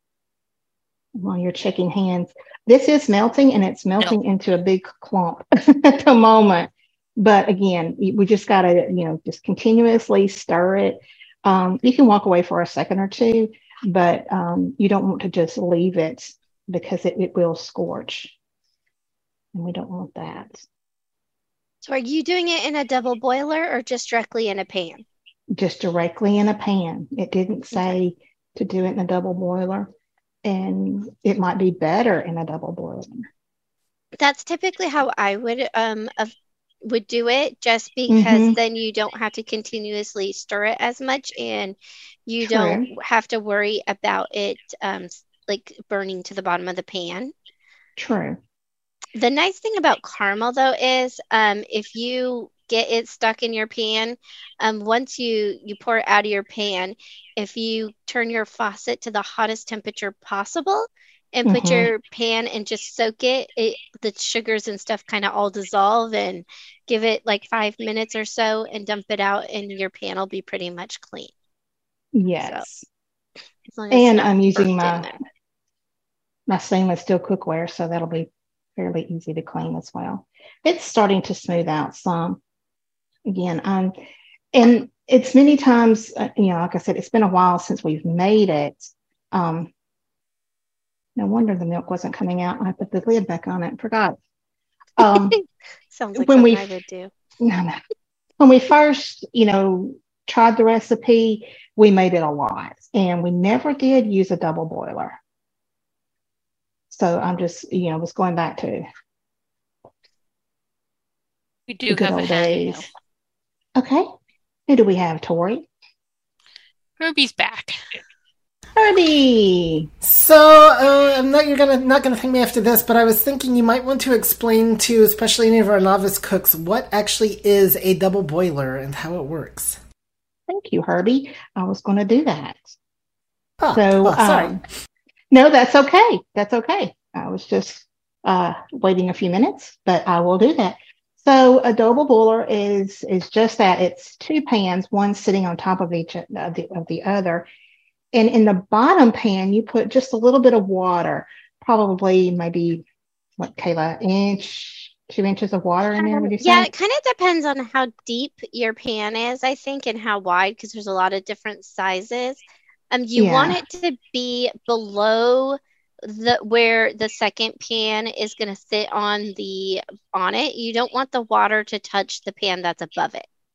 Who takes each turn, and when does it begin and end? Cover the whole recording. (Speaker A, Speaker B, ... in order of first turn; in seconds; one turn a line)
Speaker A: 1.2-18.4
Speaker A: 19.5-20.6
Speaker B: 21.8-25.1
Speaker A: 25.5-29.9
Speaker A: 30.4-33.3
Speaker B: 34.2-47.3
Speaker A: 38.1-38.6
Speaker A: 42.4-42.9
Speaker A: 48.0-48.4
Speaker B: 49.2-71.3
Speaker A: 61.5-61.9
Speaker A: 72.1-72.9
Speaker B: 73.7-75.2
Speaker A: 73.9-75.1
Speaker A: 76.5-82.4
Speaker A: 83.2-84.0
Speaker A: 84.5-89.7
Speaker A: 91.2-94.2
Speaker A: 95.0-95.4
Speaker B: 95.1-95.4
Speaker B: 95.9-97.1
Speaker A: 96.2-96.7
Speaker A: 97.4-97.8
Speaker A: 98.4-105.2
Speaker A: 106.9-108.9
Speaker C: 111.7-112.9
Speaker A: 111.9-112.9
Speaker A: 113.8-114.1
Speaker A: 114.7-115.7
Speaker C: 117.0-118.0
Speaker A: 118.8-119.9
Speaker D: 120.0-129.8
Speaker A: 130.5-132.7
Speaker D: 133.6-134.6
Speaker A: 133.7-134.6
Speaker A: 135.3-147.5
Speaker A: 148.1-152.8
Speaker A: 153.4-156.7
Speaker B: 156.0-173.3
Speaker A: 163.2-163.6